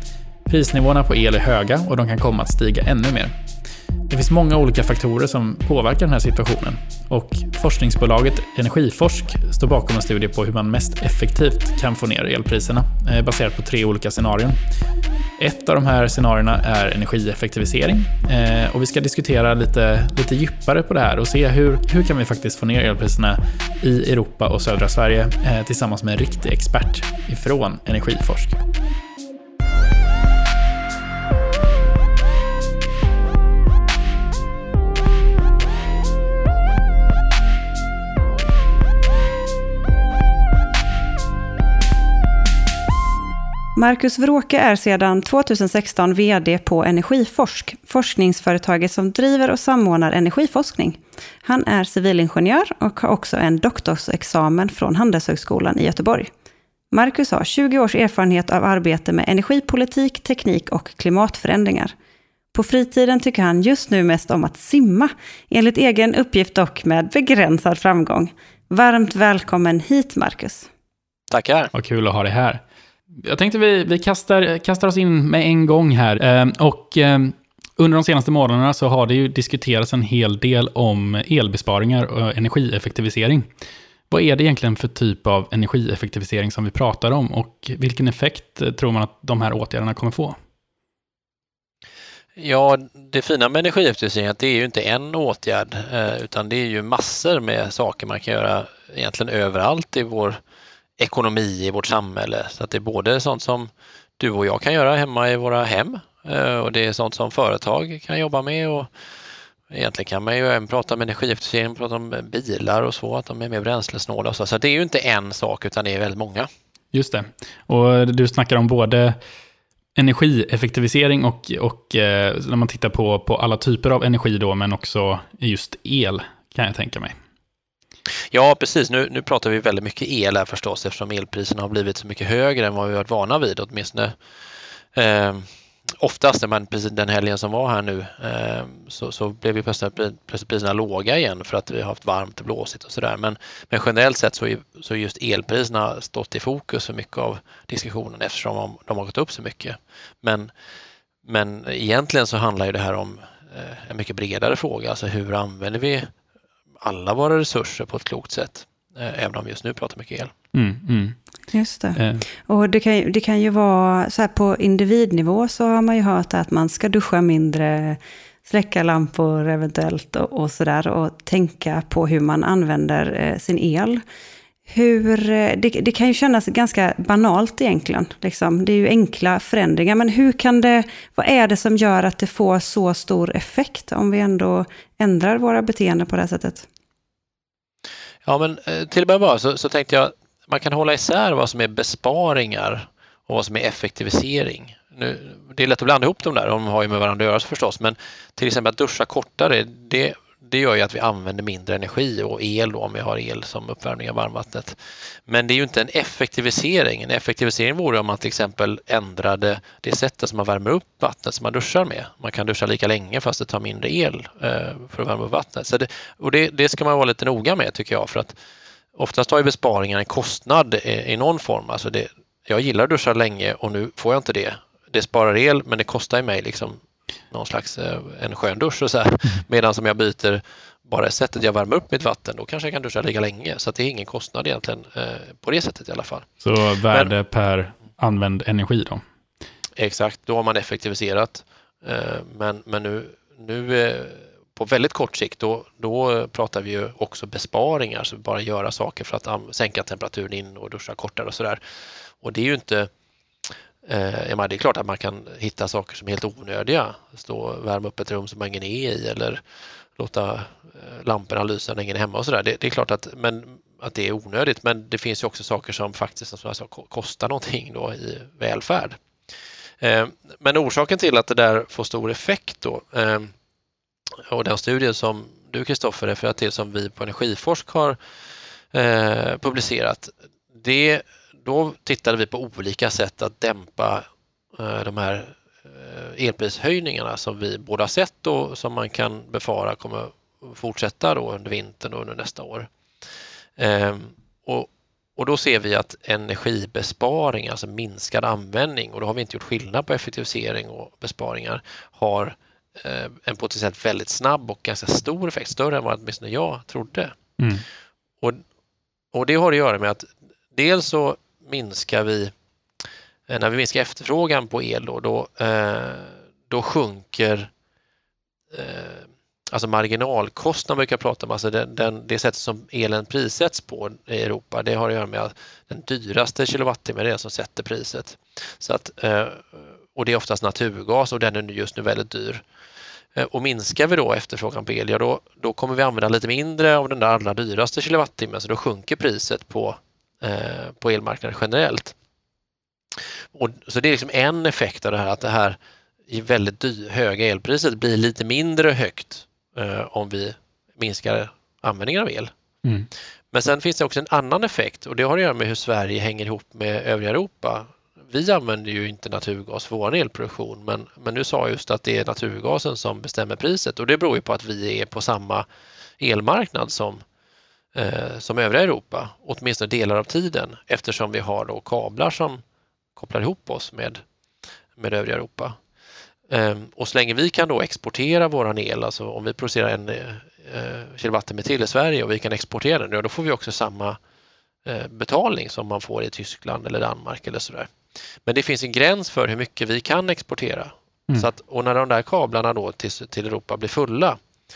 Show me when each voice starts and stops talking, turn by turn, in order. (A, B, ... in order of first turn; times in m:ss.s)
0:00.5-0:03.3 A
0:04.1-0:14.6 A
0:15.4-0:28.6 A
0:43.8-0:56.3 B
0:56.9-1:01.9 B
1:02.5-1:10.7 B
1:11.3-1:11.7 C
1:11.7-1:12.6 A
1:13.2-1:23.5 A
1:24.1-1:30.4 A
1:32.4-1:40.4 C
1:41.0-1:48.9 C
1:49.7-1:56.5 C
1:56.9-1:59.2 A
2:00.0-2:07.2 A
2:08.3-2:14.1 C
2:14.9-2:15.4 C
2:16.0-2:30.5 C
2:31.2-2:36.1 C
2:36.8-2:40.3 C
2:40.5-2:41.2 A
2:41.5-2:54.0 B
2:42.0-2:42.3 A
2:54.7-3:06.7 B
3:08.2-3:38.4 C
3:39.0-3:56.3 C
3:56.4-3:59.0 A
3:59.8-4:11.6 C
4:12.2-4:12.9 C
4:13.9-4:19.4 C
4:20.0-4:29.0 C
4:29.8-4:33.3 C
4:34.3-4:38.0 C
4:38.7-4:44.0 C
4:44.6-4:52.7 C
4:53.6-5:07.1 C
5:07.4-5:07.7 A
5:09.1-5:12.3 C
5:13.3-5:17.5 C
5:18.5-5:32.4 C
5:33.2-5:41.9 C
5:43.3-5:45.6 C
5:46.1-5:52.3 C
5:53.3-6:05.5 C
6:06.0-6:07.0 C
6:07.8-6:12.4 C
6:13.0-6:14.0 C
6:14.8-6:15.6 C
6:16.3-6:24.0 C
6:24.6-6:27.7 C
6:28.3-6:34.2 C